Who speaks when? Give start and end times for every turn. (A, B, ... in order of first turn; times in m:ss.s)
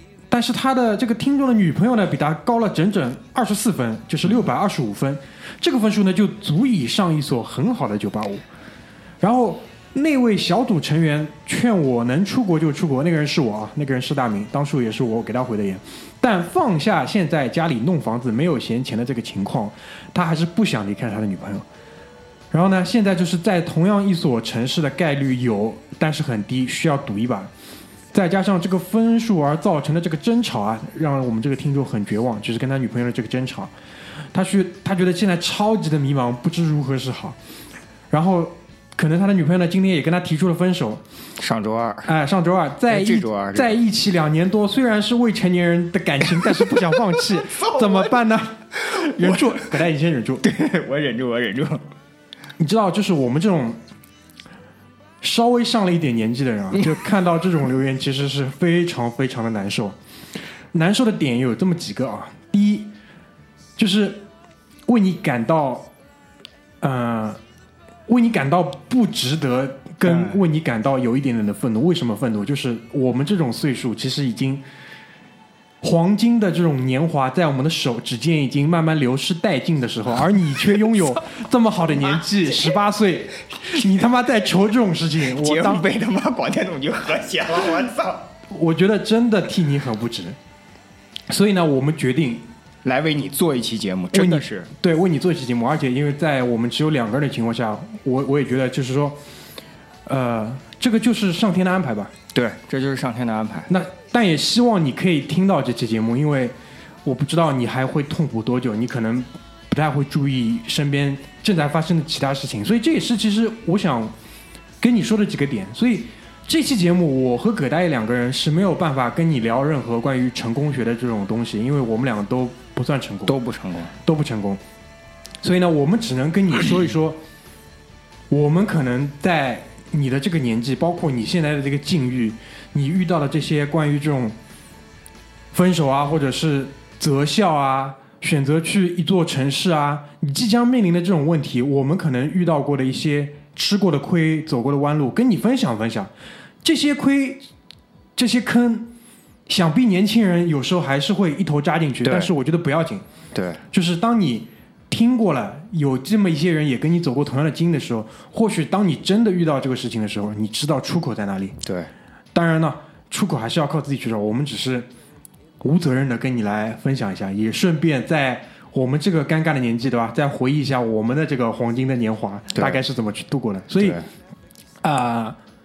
0:00.3-0:08.4 A
0:09.2-0:21.7 A
0:22.5-0:27.5 A
0:28.1-0:33.7 A
0:34.3-0:37.4 A
0:38.1-0:41.0 A
0:41.4-0:42.1 B
0:42.0-0:50.4 A
0:42.9-0:43.7 B
0:47.2-0:48.1 B
0:48.8-0:49.6 B
0:50.4-0:51.9 B
0:52.6-0:53.8 A
0:55.2-1:00.0 A
1:00.7-1:02.9 A
1:03.8-1:04.2 A
1:04.9-1:05.9 A
1:06.8-1:07.4 A
1:08.1-1:14.6 A
1:10.1-1:10.4 B
1:15.8-1:25.9 A
1:25.3-1:28.2 B
1:28.5-1:30.4 A
1:31.3-1:32.5 A
1:32.8-1:34.7 B
1:34.1-1:39.2 A
1:40.1-1:42.1 A
1:42.3-1:43.7 B
1:43.7-1:54.2 A
1:54.8-2:03.4 A
2:03.3-2:03.9 B
2:04.0-2:04.6 A
2:05.4-2:07.2 A
2:08.3-2:14.4 A
2:15.5-2:26.1 A
2:26.6-2:27.5 A
2:28.2-2:28.9 A
2:29.5-2:33.1 A
2:32.0-2:32.3 B
2:33.3-2:33.6 B
2:33.7-2:41.6 A
2:41.6-2:41.9 B
2:42.3-2:44.9 A
2:45.6-2:54.0 A
2:52.5-2:52.8 B
2:53.8-2:54.1 B
2:54.8-2:55.4 A